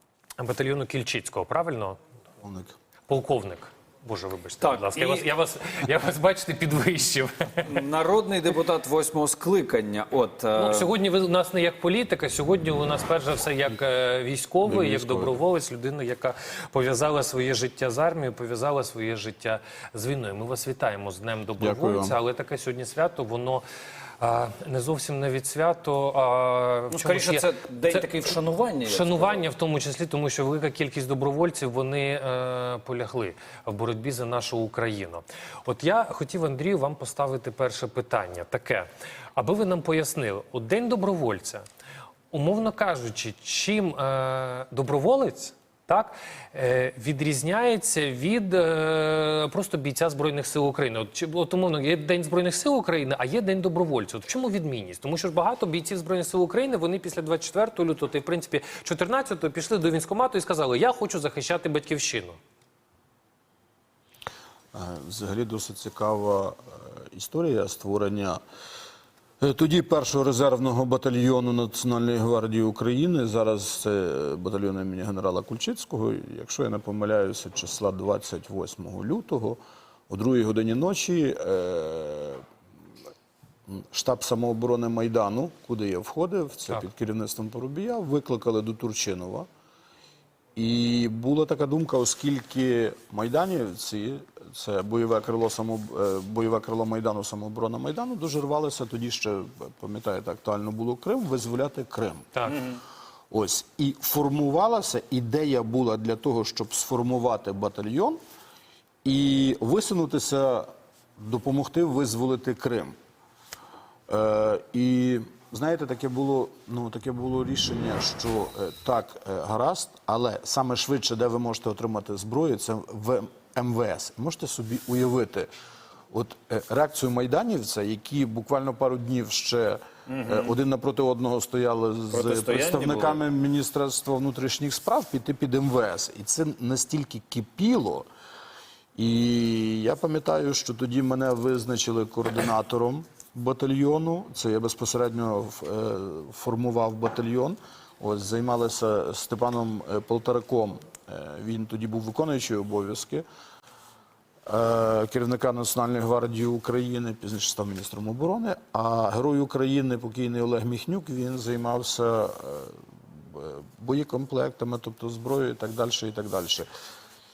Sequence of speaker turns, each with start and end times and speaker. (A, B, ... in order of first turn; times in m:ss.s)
0:00.4-0:02.0 A
0:02.4-0:02.7 B
0:03.1-0:07.8 A
0:04.6-0:05.2 C
0:07.6-0:10.9 C
0:10.6-0:23.6 A
0:14.6-0:15.4 B
0:21.6-0:22.2 B
0:24.2-0:41.6 A
0:26.9-0:29.4 C
0:42.3-1:02.4 A
1:04.7-1:08.4 B
1:09.4-1:22.4 B
1:23.7-1:29.5 B
1:30.6-1:42.5 B
1:43.3-1:48.2 B
1:49.0-1:52.9 B
1:54.1-2:05.5 B
2:06.1-2:18.0 B
2:10.1-2:10.6 C
2:12.1-2:13.2 C
2:19.0-2:33.2 B
2:34.4-2:46.7 B